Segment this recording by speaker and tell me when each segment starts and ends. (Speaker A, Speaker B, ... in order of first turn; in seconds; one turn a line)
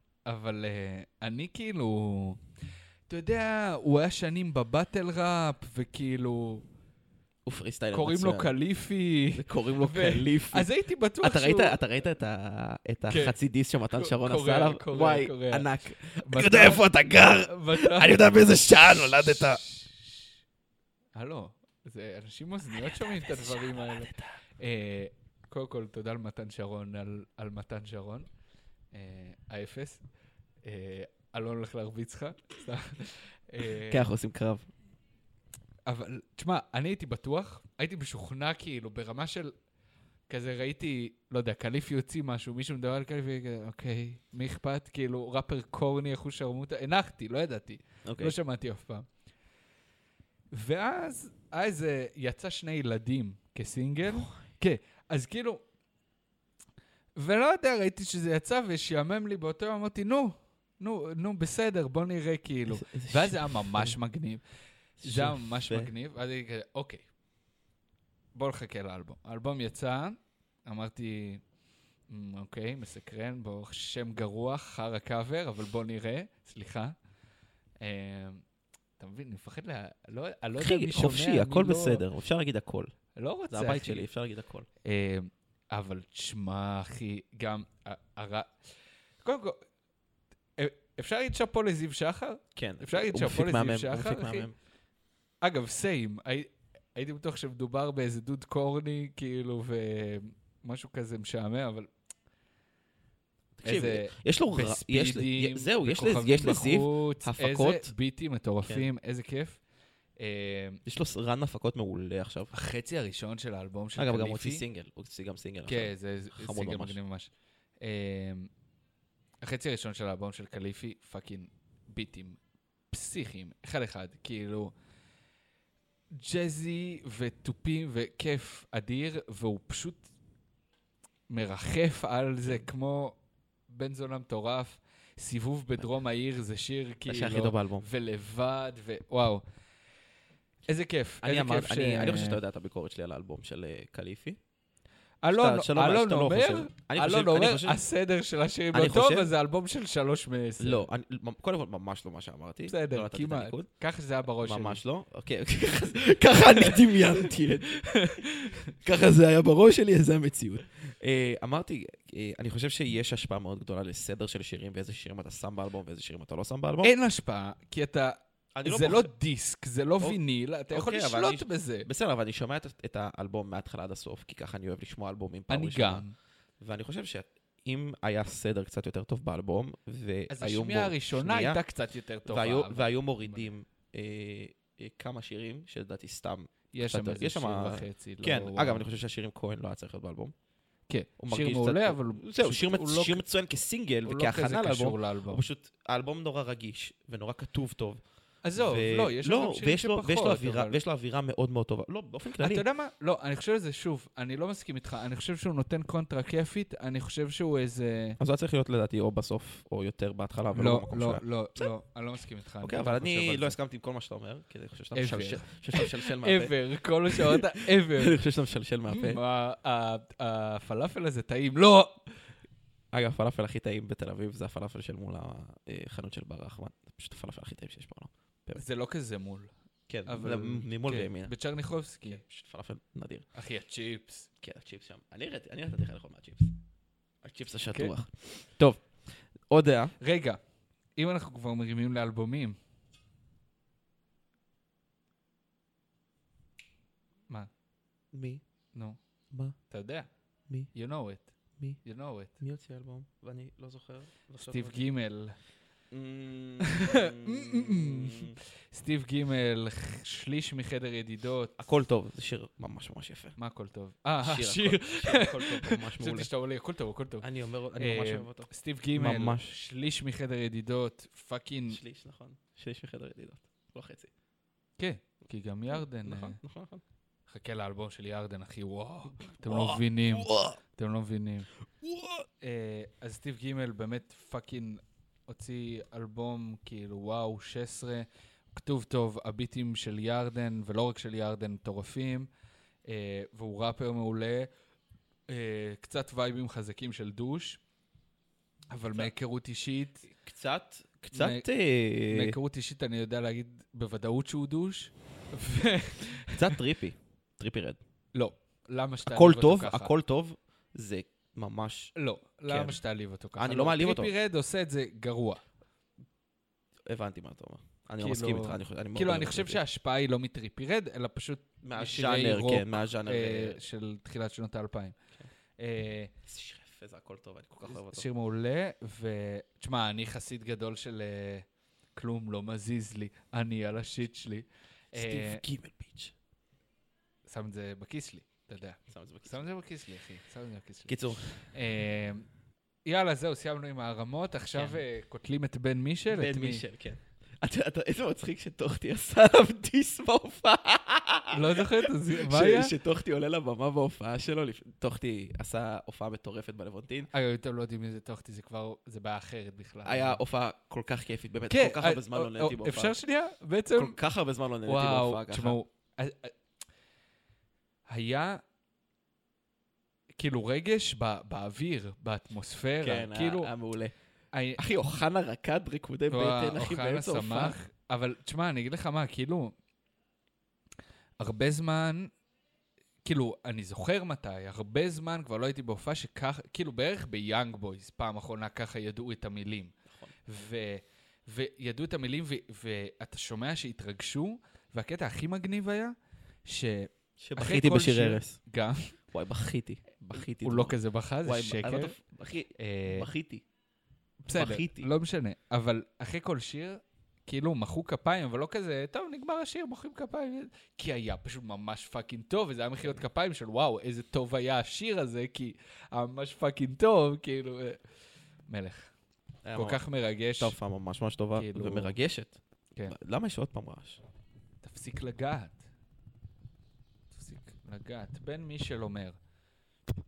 Speaker A: 0.2-2.4
Speaker A: 3.1-6.6
Speaker B: 7.4-8.5
Speaker A: 7.9-11.8
Speaker B: 9.3-10.7
Speaker B: 11.2-19.6
Speaker A: 13.1-13.3
Speaker A: 13.9-15.7
Speaker A: 16.2-18.5
Speaker A: 19.2-20.3
Speaker A: 21.1-28.3
Speaker B: 22.7-24.3
Speaker A: 28.9-30.0
Speaker A: 30.6-34.1
Speaker B: 33.9-34.7
Speaker A: 35.9-39.5
Speaker A: 40.3-49.1
Speaker B: 48.0-48.4
Speaker A: 50.5-55.6
Speaker B: 54.0-54.4
Speaker A: 57.2-64.4
Speaker B: 62.7-64.0
Speaker B: 65.0-65.9
Speaker A: 65.0-67.0
Speaker A: 68.3-71.4
Speaker A: 72.1-76.9
Speaker A: 77.8-78.4
Speaker A: 79.0-82.0
Speaker B: 80.6-82.9
Speaker A: 83.1-84.1
Speaker B: 83.5-84.7
Speaker A: 84.8-88.5
Speaker A: 89.2-89.6
Speaker A: 90.6-94.5
Speaker B: 92.5-94.5
Speaker A: 95.4-101.9
Speaker B: 103.6-107.9
Speaker A: 103.6-109.6
Speaker A: 110.2-110.8
Speaker B: 110.8-112.5
Speaker A: 112.5-114.6
Speaker B: 114.0-117.0
Speaker A: 115.7-117.3
Speaker A: 117.8-118.5
Speaker A: 119.4-122.4
Speaker A: 122.9-124.7
Speaker A: 126.1-130.1
Speaker A: 131.3-133.1
Speaker A: 133.7-139.4
Speaker B: 137.1-137.9
Speaker A: 140.7-142.4
Speaker B: 141.2-144.4
Speaker A: 145.2-150.8
Speaker B: 145.3-147.8
Speaker B: 148.7-149.3
Speaker B: 150.6-153.7
Speaker A: 152.7-154.8
Speaker B: 154.4-166.9
Speaker A: 156.6-157.0
Speaker A: 157.9-158.7
Speaker A: 166.8-171.9
Speaker B: 168.5-169.1
Speaker B: 170.7-176.0
Speaker A: 175.5-176.1
Speaker B: 176.6-181.6
Speaker A: 180.3-183.5
Speaker B: 182.2-190.3
Speaker A: 186.7-188.8
Speaker A: 190.9-193.2
Speaker B: 191.2-198.0
Speaker A: 194.0-195.4
Speaker A: 198.4-200.8
Speaker B: 198.5-202.6
Speaker A: 202.4-208.2
Speaker B: 208.2-211.6
Speaker A: 210.5-213.6
Speaker B: 212.6-216.6
Speaker A: 214.9-218.2
Speaker B: 217.1-219.2
Speaker A: 218.9-222.1
Speaker B: 222.9-228.6
Speaker A: 228.5-229.5
Speaker B: 229.9-231.3
Speaker A: 230.1-232.2
Speaker B: 232.1-233.2
Speaker A: 233.3-234.3
Speaker B: 234.4-236.5
Speaker B: 237.2-238.9
Speaker B: 239.5-239.9
Speaker A: 240.0-240.4
Speaker A: 240.9-242.6
Speaker B: 248.1-248.4
Speaker B: 249.3-249.6
Speaker A: 249.7-250.1
Speaker A: 250.7-252.3
Speaker B: 252.4-254.8
Speaker A: 254.5-255.4
Speaker B: 255.9-258.4
Speaker A: 256.6-261.6
Speaker B: 261.6-263.4
Speaker A: 263.4-267.3
Speaker B: 264.2-266.3
Speaker B: 267.2-269.6
Speaker A: 267.8-271.8
Speaker B: 271.7-274.1
Speaker A: 274.8-276.4
Speaker B: 275.7-276.8
Speaker A: 277.3-281.5
Speaker B: 279.2-280.6
Speaker B: 281.8-282.3
Speaker A: 282.4-292.3
Speaker A: 292.9-294.5
Speaker A: 295.3-297.6
Speaker A: 298.7-300.1
Speaker B: 300.1-302.4
Speaker A: 301.1-301.4
Speaker A: 302.1-306.6
Speaker B: 306.3-307.8
Speaker A: 308.1-309.9
Speaker B: 309.0-311.9
Speaker A: 311.9-315.4
Speaker B: 312.5-312.8
Speaker B: 313.4-314.1
Speaker B: 316.9-319.6
Speaker A: 318.0-325.0
Speaker B: 321.6-323.6
Speaker A: 325.6-326.1
Speaker B: 326.2-328.1
Speaker A: 327.6-335.4
Speaker B: 334.9-336.1
Speaker A: 337.3-342.3
Speaker B: 338.9-339.4
Speaker B: 340.9-341.4
Speaker A: 342.9-346.6
Speaker B: 344.5-344.8
Speaker B: 346.1-357.1
Speaker A: 351.3-352.7
Speaker A: 357.1-360.2
Speaker B: 359.8-363.0
Speaker A: 361.5-364.0
Speaker B: 363.7-365.6
Speaker A: 364.6-366.3
Speaker A: 367.9-368.4
Speaker A: 370.2-373.5
Speaker B: 372.8-373.9
Speaker A: 374.3-374.6
Speaker B: 374.6-377.6
Speaker A: 376.1-379.5
Speaker A: 381.2-382.1
Speaker A: 383.0-389.7
Speaker A: 390.2-395.9
Speaker A: 396.4-398.9
Speaker B: 397.2-398.4
Speaker B: 399.1-403.4
Speaker A: 400.2-401.9
Speaker A: 402.6-403.1
Speaker A: 404.2-417.8
Speaker B: 404.3-404.9
Speaker A: 418.5-418.9
Speaker B: 419.4-419.8
Speaker A: 419.5-420.6
Speaker B: 420.4-422.4
Speaker A: 421.3-421.9
Speaker B: 422.9-424.0
Speaker A: 424.6-425.6
Speaker A: 427.1-429.2